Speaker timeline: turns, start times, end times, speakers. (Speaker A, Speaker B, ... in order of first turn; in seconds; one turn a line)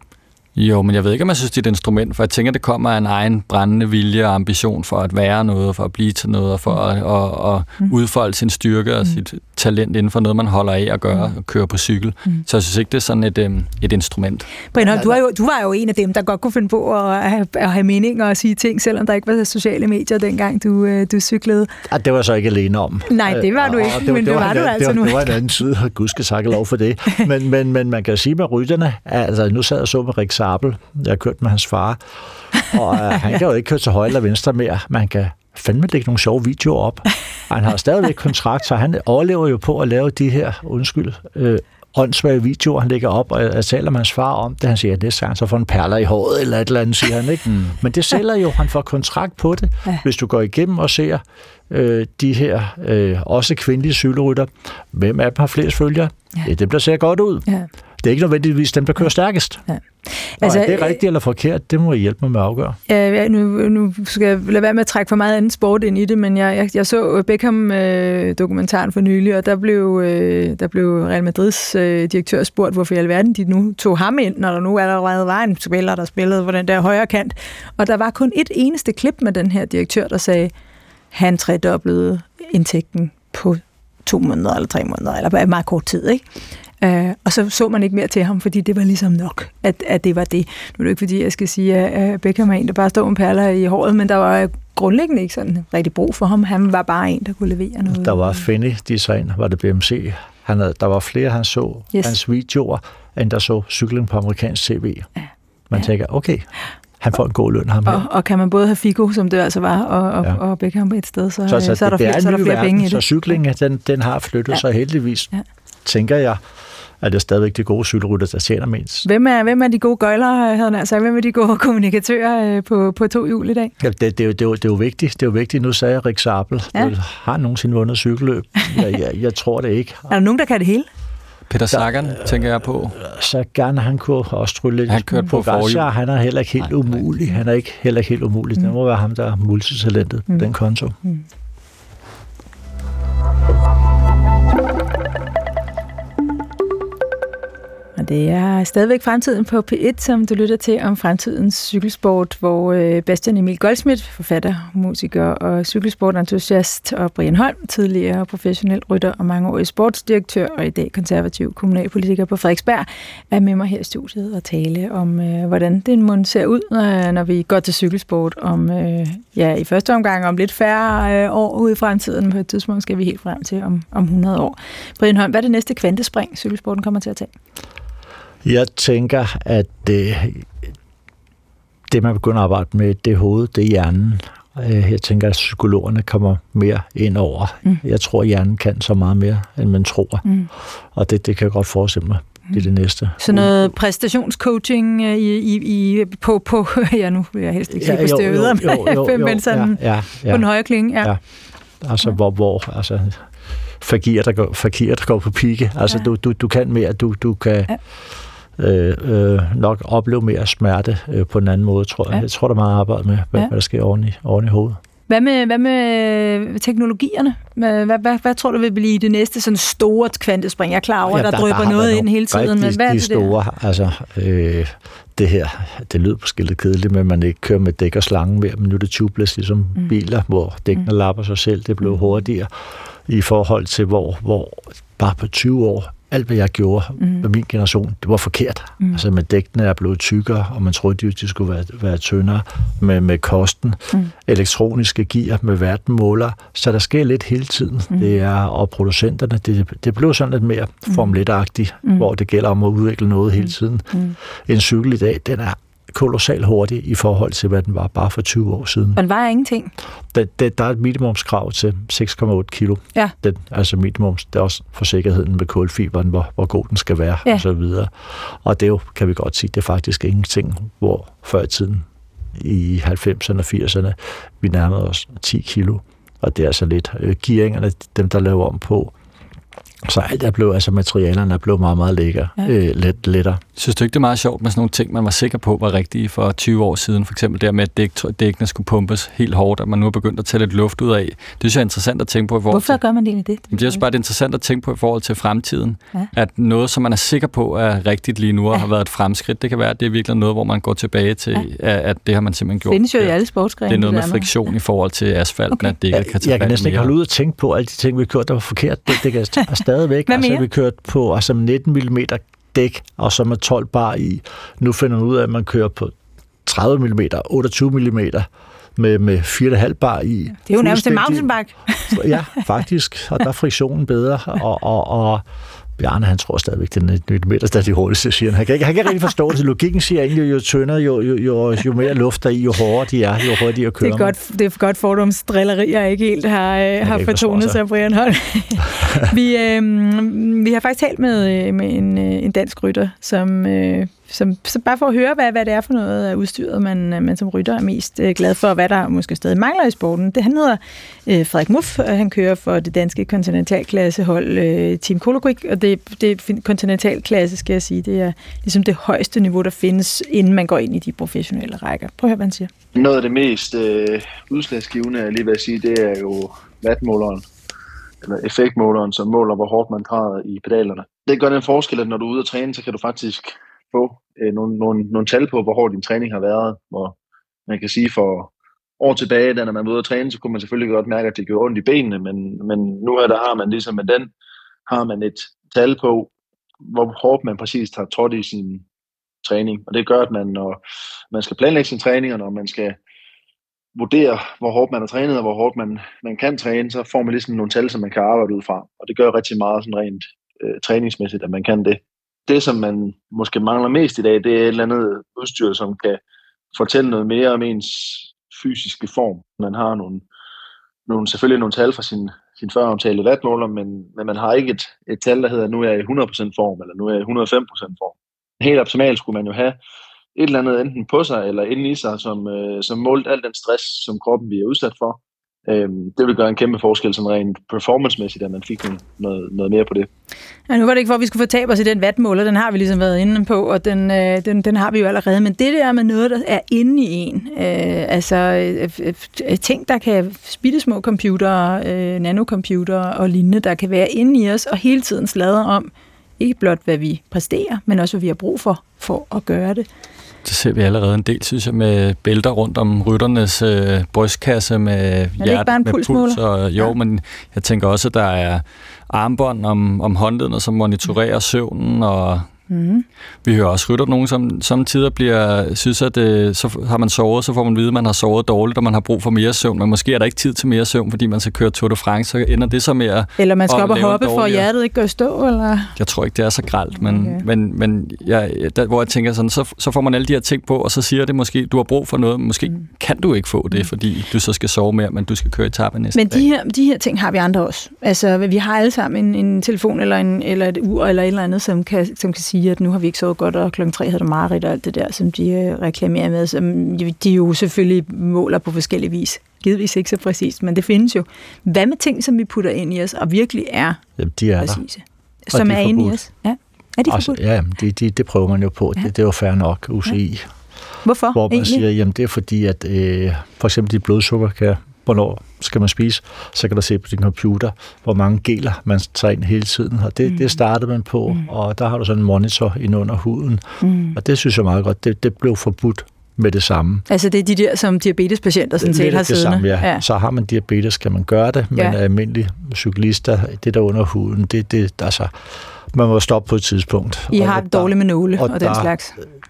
Speaker A: 0.6-14.5
Speaker B: 14.7-21.7
Speaker C: 14.8-15.2
Speaker C: 21.9-32.0
Speaker B: 23.1-25.4
Speaker C: 32.5-57.5
Speaker A: 47.5-47.7
Speaker C: 58.0-59.7
Speaker B: 60.4-61.0
Speaker C: 60.4-62.8
Speaker B: 62.9-80.5
Speaker B: 81.1-86.2
Speaker B: 86.8-98.4
Speaker C: 97.9-105.1
Speaker C: 105.7-106.5
Speaker C: 107.0-108.0
Speaker B: 107.8-113.1
Speaker C: 111.5-115.3
Speaker C: 115.8-116.4
Speaker C: 117.0-119.1
Speaker B: 119.0-123.7
Speaker C: 123.8-130.1
Speaker B: 130.1-130.9
Speaker A: 131.5-133.0
Speaker C: 131.7-141.0
Speaker A: 134.9-135.9
Speaker A: 136.6-137.0
Speaker B: 148.0-177.3
Speaker C: 178.4-180.5
Speaker C: 181.9-190.2
Speaker C: 190.9-193.7
Speaker B: 193.2-201.1
Speaker C: 197.7-200.5
Speaker C: 201.8-203.3
Speaker C: 203.8-207.8
Speaker C: 208.6-214.8
Speaker B: 215.1-223.3
Speaker C: 221.1-232.5
Speaker C: 233.1-259.0
Speaker B: 259.0-259.7
Speaker C: 260.1-278.9
Speaker C: 279.9-283.4
Speaker A: 283.6-292.8
Speaker B: 292.5-293.8
Speaker A: 293.5-303.1
Speaker B: 302.6-304.3
Speaker A: 303.7-306.9
Speaker C: 305.9-315.9
Speaker B: 310.1-310.4
Speaker C: 316.4-321.3
Speaker B: 320.5-322.2
Speaker C: 321.9-325.2
Speaker C: 325.8-334.1
Speaker B: 333.8-362.5
Speaker C: 336.8-337.6
Speaker C: 338.8-339.0
Speaker D: 362.8-367.3
Speaker D: 368.0-377.0
Speaker D: 377.5-384.1
Speaker D: 384.7-386.1
Speaker D: 386.6-388.6
Speaker D: 389.2-390.6
Speaker D: 391.1-392.8
Speaker D: 393.8-406.0
Speaker D: 406.5-410.1
Speaker D: 410.9-419.6
Speaker D: 420.1-429.9
Speaker B: 430.5-449.7
Speaker A: 450.2-462.3
Speaker B: 455.2-456.7
Speaker B: 462.5-462.9
Speaker A: 463.2-474.5
Speaker B: 473.2-475.7
Speaker A: 475.8-486.3
Speaker B: 476.8-477.2
Speaker B: 485.9-503.8
Speaker C: 504.0-504.6
Speaker B: 504.4-507.2
Speaker C: 505.3-506.0
Speaker C: 506.9-510.3
Speaker B: 510.9-511.6
Speaker C: 511.1-526.9
Speaker B: 523.6-524.0
Speaker B: 526.9-529.8
Speaker C: 528.6-535.1
Speaker C: 535.7-538.7
Speaker B: 537.1-539.0